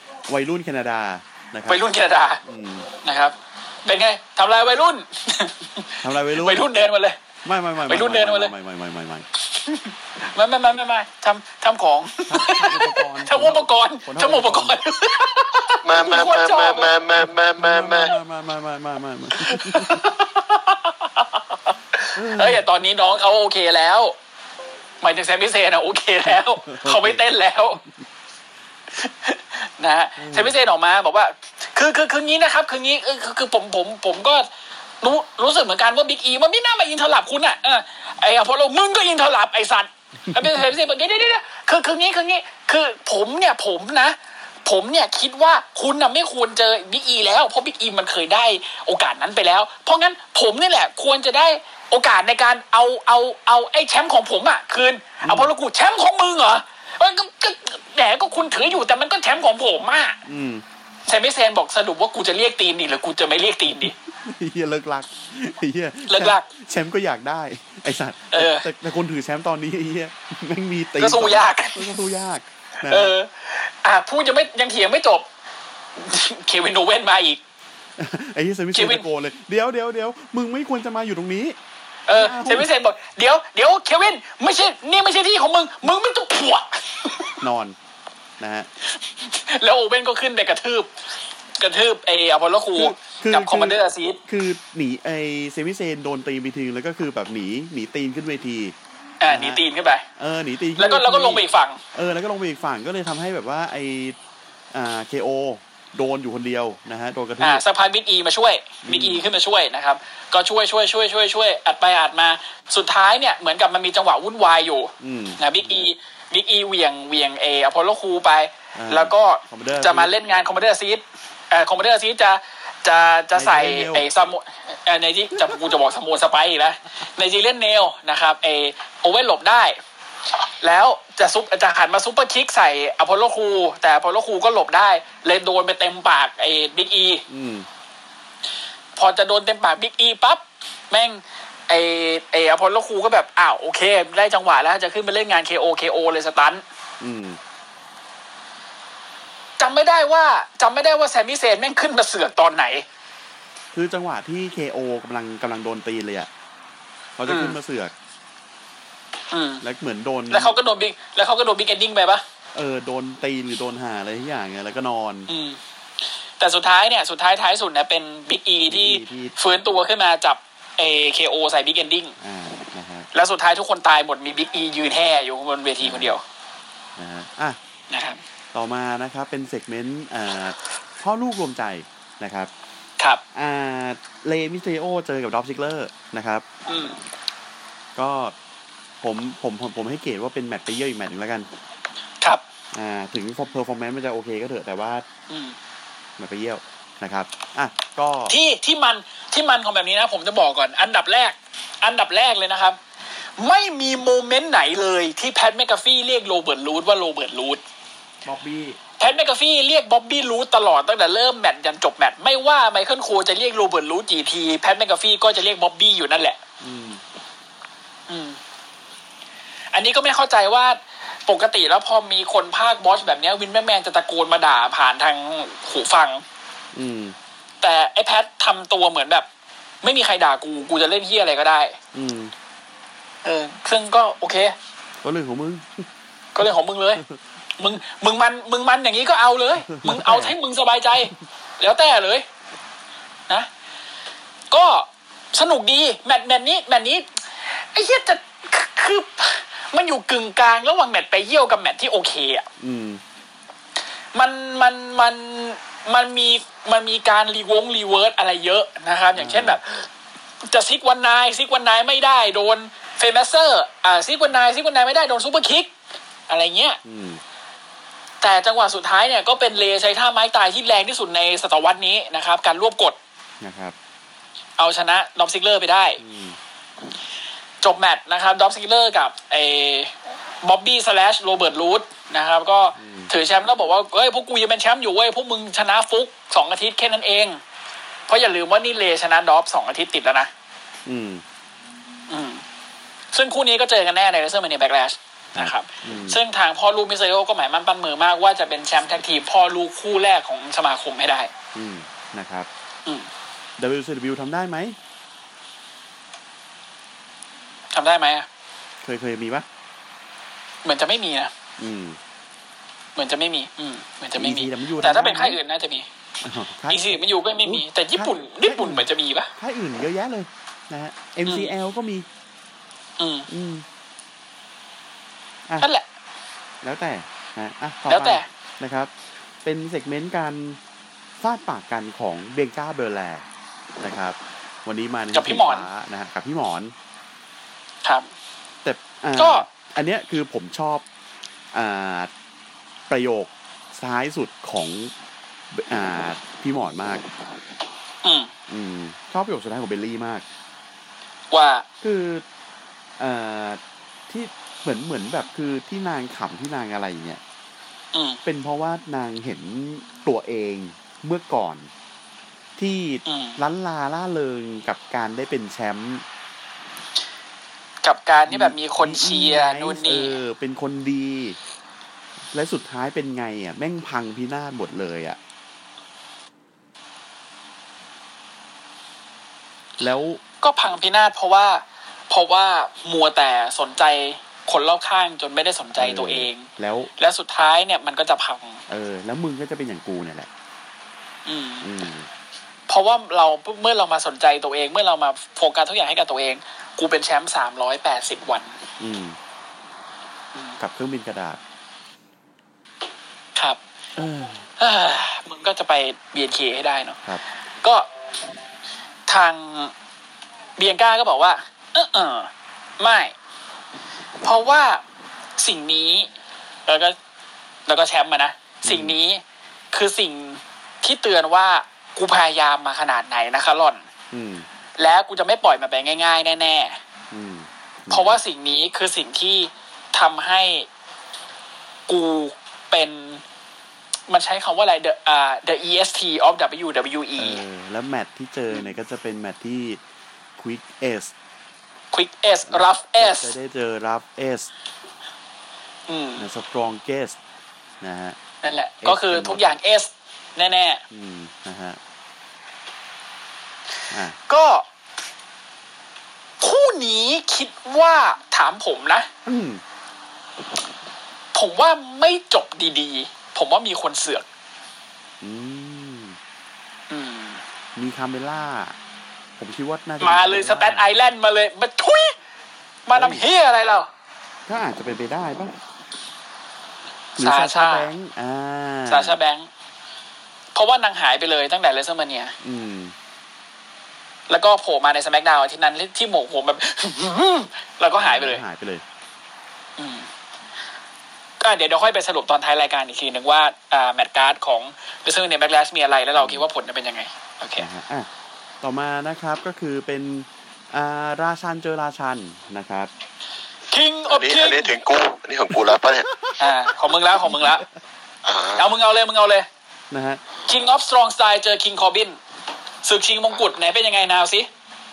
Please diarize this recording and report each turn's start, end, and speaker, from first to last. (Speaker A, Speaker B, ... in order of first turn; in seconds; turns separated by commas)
Speaker A: 0.3-1.9, Speaker B: 1.7-2.4, Speaker A: 2.4-2.9, Speaker B: 3.0-7.2, Speaker A: 6.0-6.7, Speaker A: 7.4-9.3, Speaker B: 7.9-8.5, Speaker B: 9.6-16.9, Speaker A: 12.3-14.8, Speaker C: 15.8-18.1, Speaker A: 17.2-20.1, Speaker B: 19.3-21.2, Speaker A: 22.1-22.7, Speaker B: 22.3-24.1, Speaker B: 25.0-27.8, Speaker A: 26.3-27.2, Speaker B: 29.0-34.5, Speaker A: 30.2-30.6, Speaker B: 35.0-60.2, Speaker A: 40.3-40.6, Speaker A: 55.2-55.5, Speaker A: 60.2-60.6, Speaker B: 61.1-64.0, Speaker A: 63.7-73.1, Speaker B: 66.1-66.5, Speaker B: 68.3-68.7, Speaker B: 71.0-72.0, Speaker B: 72.8-75.3, Speaker B: 76.0-77.4, Speaker A: 78.0-81.6, Speaker B: 78.7-79.1, Speaker B: 82.1-87.3, Speaker A: 82.1-82.7, Speaker A: 87.4-87.8, Speaker A: 88.4-88.7, Speaker B: 89.3-90.9, Speaker B: 91.6-94.2, Speaker A: 92.8-98.8, Speaker B: 99.2-100.0, Speaker A: 99.3-99.6, Speaker A: 100.2-104.2, Speaker B: 100.8-101.8, Speaker A: 104.7-107.6, Speaker B: 107.4-129.8, Speaker A: 108.8-109.2, Speaker A: 115.0-115.9, Speaker A: 118.7-120.1, Speaker A: 123.3-124.1, Speaker B: 130.6-137.2, Speaker A: 137.3-137.7, Speaker B: 139.0-146.6, Speaker A: 147.0-147.4, Speaker B: 149.6-152.8, Speaker A: 153.7-156.3, Speaker A: 157.2-157.9, Speaker B: 157.3-157.6, Speaker B: 159.3-159.6, Speaker A: 159.6-160.6, Speaker B: 160.3-162.2, Speaker A: 162.5-165.3, Speaker B: 165.3-165.6, Speaker B: 166.4-172.2, Speaker A: 168.7-169.3, Speaker A: 172.2-173.1, Speaker B: 173.1-176.2, Speaker A: 175.8-176.2, Speaker A: 177.0-177.6, Speaker B: 177.9-178.2, Speaker A: 178.5-182.5, Speaker A: 183.3-186.4, Speaker B: 186.7-187.0, Speaker A: 188.0-188.3, Speaker A: 189.0-191.5, Speaker A: 192.7-195.1, Speaker B: 195.3-195.6, Speaker A: 196.2-198.3, Speaker B: 198.3-202.8, Speaker B: 203.4-207.6, Speaker A: 208.2-208.8, Speaker B: 209.0-216.4, Speaker A: 216.6-217.0, Speaker B: 218.1-218.4, Speaker B: 219.7-226.2, Speaker A: 226.7-227.2, Speaker B: 227.6-229.3, Speaker B: 229.8-231.8, Speaker A: 231.9-232.3, Speaker B: 233.2-234.6, Speaker A: 235.0-235.9, Speaker B: 236.3-237.0, Speaker B: 237.6-242.3, Speaker A: 239.6-240.4, Speaker B: 244.5-252.5, Speaker A: 252.6-253.0, Speaker B: 254.1-259.9, Speaker A: 259.1-259.6, Speaker B: 260.4-265.7, Speaker B: 266.3-266.8, Speaker A: 266.8-267.2, Speaker B: 268.2-273.0, Speaker A: 273.4-273.8, Speaker B: 274.6-276.0, Speaker A: 276.0-276.4, Speaker B: 277.6-287.4, Speaker A: 282.8-283.1, Speaker B: 288.1-290.3, Speaker A: 290.9-291.2, Speaker B: 292.1-292.4, Speaker B: 293.1-301.3, Speaker A: 295.4-296.2, Speaker A: 301.5-302.5, Speaker A: 303.6-304.8, Speaker B: 307.7-308.3, Speaker A: 308.8-309.5, Speaker B: 310.6-311.3, Speaker A: 311.6-312.0, Speaker B: 313.0-315.9, Speaker A: 314.2-315.4, Speaker A: 316.2-322.1, Speaker B: 316.7-319.3, Speaker B: 321.3-321.5, Speaker B: 323.0-323.3, Speaker A: 323.3-323.6, Speaker A: 326.6-328.9, Speaker B: 327.9-328.3, Speaker A: 329.4-330.6, Speaker A: 331.2-333.2, Speaker A: 333.8-336.7, Speaker B: 335.1-335.7, Speaker A: 338.6-340.8, Speaker B: 339.2-339.5, Speaker A: 341.5-342.1, Speaker A: 342.9-344.9, Speaker A: 345.5-347.0, Speaker B: 348.0-348.3, Speaker A: 348.5-350.2, Speaker B: 351.3-351.7, Speaker A: 351.8-352.2, Speaker A: 353.0-357.2, Speaker B: 357.9-358.2, Speaker A: 358.2-361.7, Speaker A: 362.6-366.0, Speaker B: 363.1-363.4, Speaker B: 367.8-370.2, Speaker A: 368.3-371.4, Speaker A: 372.3-375.2, Speaker A: 379.8-380.2, Speaker B: 380.4-388.6, Speaker A: 385.8-386.9, Speaker A: 388.7-390.3, Speaker B: 391.3-391.7, Speaker A: 391.6-392.1, Speaker B: 392.7-398.6, Speaker A: 398.8-399.2, Speaker A: 400.6-401.4, Speaker A: 404.0-404.5, Speaker B: 404.6-407.0, Speaker B: 407.6-407.9, Speaker B: 409.1-409.7, Speaker B: 410.6-413.1, Speaker B: 414.2-414.8, Speaker B: 415.4-416.1, Speaker B: 416.7-417.0, Speaker B: 417.7-423.9, Speaker A: 418.6-419.0, Speaker A: 424.1-424.5, Speaker B: 424.8-426.8, Speaker A: 427.1-428.2, Speaker B: 427.9-430.7, Speaker B: 431.9-433.2, Speaker B: 434.1-437.4, Speaker A: 437.2-439.8, Speaker A: 440.4-441.1, Speaker B: 441.9-443.3, Speaker A: 442.5-444.5, Speaker B: 445.9-446.3, Speaker A: 446.2-447.2, Speaker A: 447.8-448.2, Speaker B: 448.4-450.8, Speaker A: 448.8-449.4, Speaker A: 450.9-451.8, Speaker A: 453.9-454.2, Speaker B: 454.3-454.6, Speaker B: 456.4-459.1, Speaker A: 459.2-459.6, Speaker B: 461.3-464.3, Speaker A: 465.2-466.2, Speaker B: 466.9-467.4, Speaker A: 467.8-468.8, Speaker A: 469.4-470.9, Speaker B: 470.0-472.1, Speaker B: 472.9-473.9, Speaker A: 472.9-473.2, Speaker A: 474.5-475.5, Speaker A: 477.2-479.2, Speaker B: 477.2-477.9, Speaker B: 478.9-479.5, Speaker B: 480.6-482.4, Speaker A: 482.4-482.9, Speaker B: 484.3-488.4, Speaker A: 488.0-488.8, Speaker B: 489.8-490.1, Speaker B: 491.4-497.7, Speaker A: 496.2-496.5, Speaker A: 497.6-498.1, Speaker A: 498.6-502.9, Speaker B: 503.7-504.8, Speaker C: 504.1-506.3, Speaker B: 506.4-507.7, Speaker C: 508.2-508.7, Speaker B: 508.6-509.5, Speaker A: 509.9-510.2, Speaker B: 510.4-512.2, Speaker B: 512.8-514.5